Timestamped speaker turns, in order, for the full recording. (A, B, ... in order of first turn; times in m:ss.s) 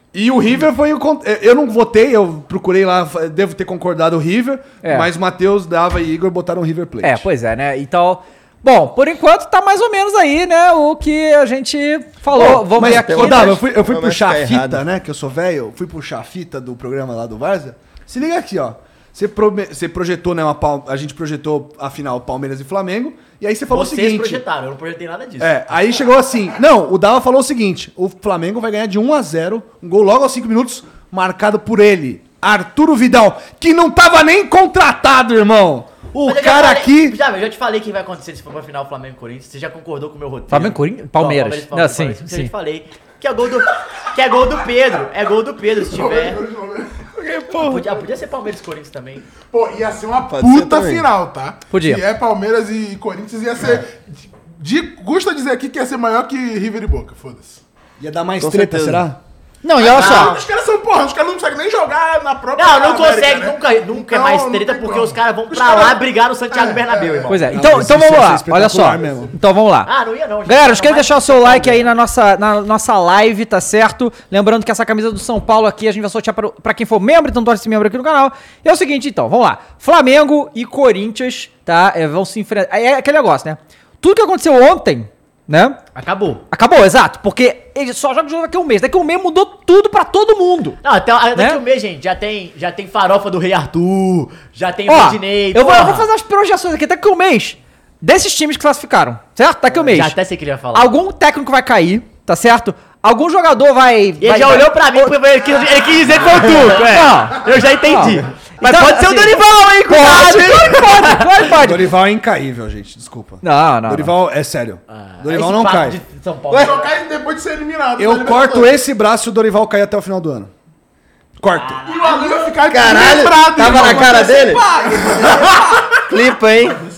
0:00.1-0:07.2 A
0:04.8-0:05.1 B
0:07.0-0:13.6 B
0:12.3-0:24.4 A
0:12.3-0:14.8 C
0:23.7-0:25.6 D
0:25.4-0:37.2 A
0:36.2-0:46.4 D
0:40.5-0:42.5 B
0:45.8-0:47.1 E
0:47.5-0:49.2 D
0:49.5-0:53.9 E
0:50.3-0:51.1 C
0:51.7-0:52.0 B
0:54.6-0:57.6 E
0:58.0-0:59.2 A
0:58.4-0:59.0 C
0:59.6-1:00.4 B
0:59.8-1:07.4 E
0:59.8-1:00.4 D
1:02.5-1:07.4 D
1:07.3-1:09.9 B
1:07.5-1:09.3 A
1:08.8-1:09.4 E
1:09.8-1:11.9 D
1:10.4-1:25.8 B
1:25.9-1:26.4 D
1:26.5-1:30.8 B
1:30.8-1:36.1 D
1:34.9-1:40.2 B
1:39.7-1:40.9 D
1:40.7-1:45.2 B
1:44.2-1:51.3 D
1:46.1-1:51.9 B
1:51.5-1:56.0 A
1:53.4-1:54.1 B
1:54.9-1:56.9 D
1:56.5-1:58.7 E
1:58.0-2:00.5 A
2:01.4-2:01.9 A
2:01.8-2:05.8 E
2:02.6-2:04.7 C
2:06.1-2:06.9 C